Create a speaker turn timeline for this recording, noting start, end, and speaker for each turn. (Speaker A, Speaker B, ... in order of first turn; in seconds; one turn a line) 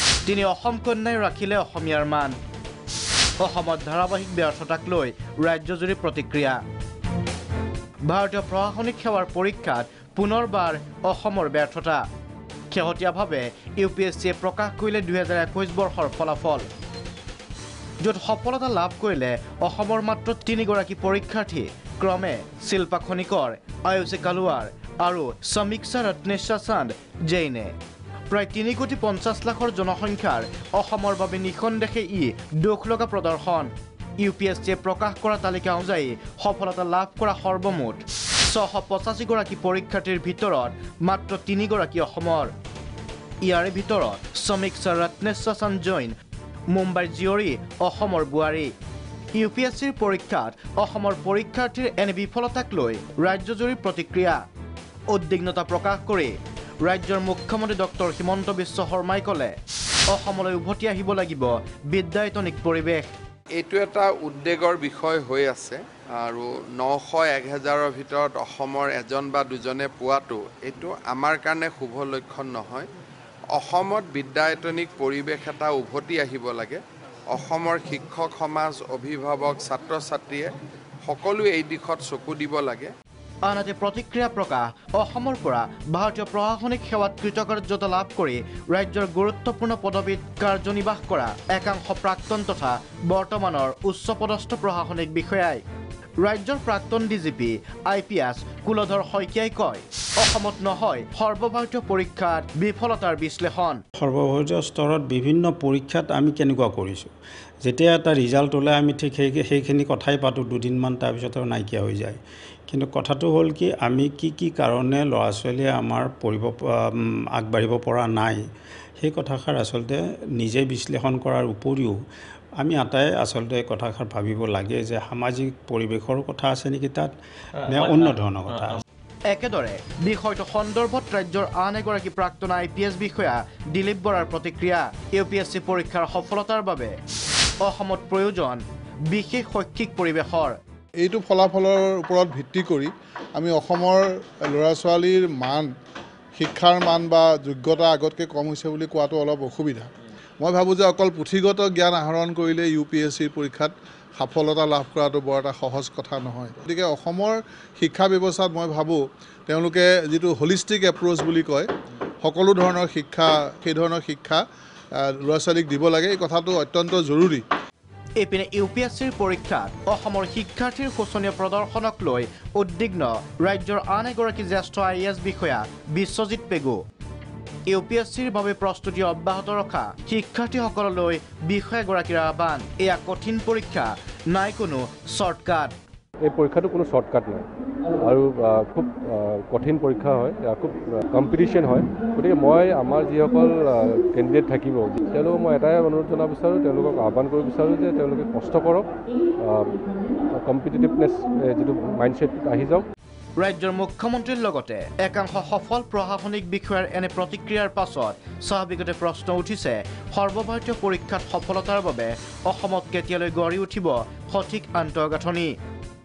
Speaker A: 0.3-2.4
Speaker A: 3.4-6.6
Speaker A: 8.1-12.0
Speaker A: 12.7-16.7
Speaker A: 18.0-27.8
Speaker A: 28.3-42.5
Speaker A: 43.4-46.1
Speaker A: 46.7-48.7
Speaker A: 49.4-54.4
Speaker A: 55.1-56.3
Speaker A: 56.8-59.5
Speaker A: 60.1-63.1
Speaker B: 63.6-72.9
Speaker B: 73.5-76.8
Speaker B: 77.3-80.5
Speaker B: 81.1-82.9
Speaker A: 83.5-95.6
Speaker A: 96.2-103.8
Speaker C: 104.0-107.1
Speaker C: 107.6-118.4
Speaker C: 119.0-122.0
Speaker C: 122.6-127.1
Speaker C: 127.7-128.8
Speaker A: 129.3-136.9
Speaker A: 137.6-140.6
Speaker D: 141.0-145.7
Speaker D: 146.4-149.9
Speaker D: 150.4-161.7
Speaker D: 162.2-164.4
Speaker D: 165.0-167.4
Speaker A: 168.2-176.8
Speaker A: 177.7-185.7
Speaker E: 186.2-187.5
Speaker E: 188.0-198.9
Speaker E: 199.5-199.8
Speaker E: 200.4-202.9
Speaker A: 203.4-215.5